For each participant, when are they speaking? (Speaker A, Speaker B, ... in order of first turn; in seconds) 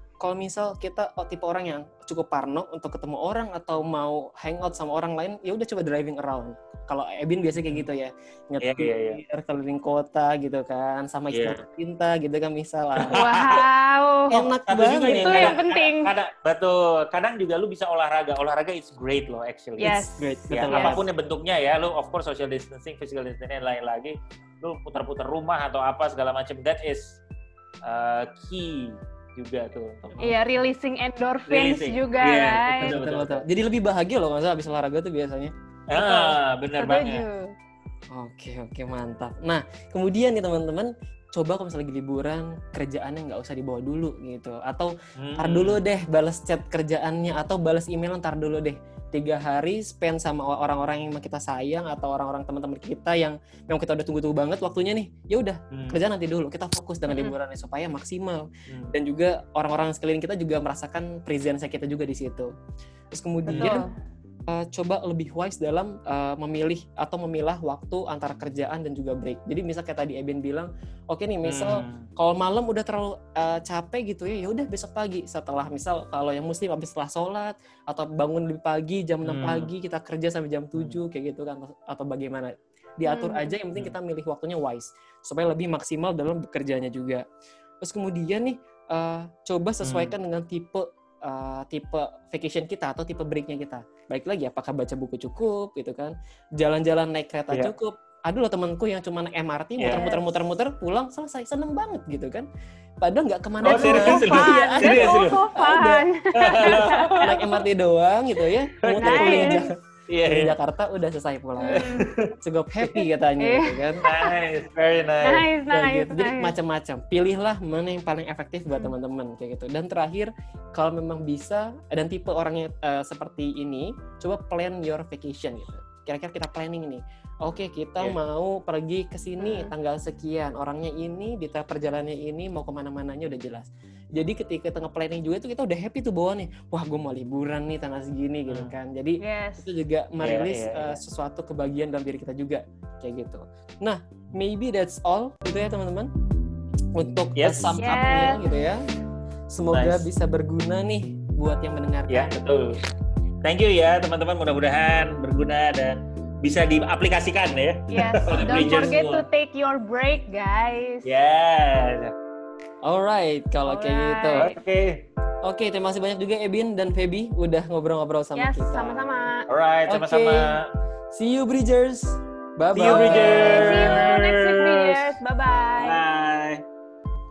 Speaker A: 0.2-13.2, 14.3-15.6, 19.8-21.0, 32.8-35.5, 38.1-62.5, 63.1-63.9, 64.5-87.2, 87.8-102.5, 103.0-106.0, 106.6-109.7, 110.2-114.0, 115.7-146.1, 146.9-148.9, 149.5-152.3, 158.3-159.1, 162.8-164.5, 165.4-169.1, 169.9-170.6, 171.1-174.0
Speaker B: 8.6-9.2, 11.3-11.6, 13.0-13.6, 14.7-20.0, 20.5-27.2, 27.8-30.1, 31.5-33.4, 35.9-37.2, 45.2-45.8, 55.7-56.0, 58.7-58.9, 63.5-63.8, 71.4-72.1, 79.2-79.7, 89.8-90.1, 99.8-100.0, 103.6-105.4, 106.3-107.3, 108.8-110.5, 111.7-112.3, 114.0-115.5, 138.5-138.7, 140.2-141.0, 147.3-147.8, 149.7-150.1, 152.1-152.8, 153.4-159.2, 161.0-162.1, 164.3-165.0, 169.5-170.7, 172.7-175.1, 175.8-176.6
Speaker C: 13.1-14.4, 15.1-16.1, 19.8-21.0, 30.2-33.0, 35.9-37.5, 57.1-57.3, 63.5-63.9, 83.0-83.5, 99.9-100.2, 103.7-107.5, 109.0-109.6, 111.6-112.1, 113.4-114.3, 115.2-116.5, 129.4-129.7, 139.2-139.7, 147.8-148.4, 157.9-161.1, 163.6-164.5, 168.3-169.4, 172.8-176.0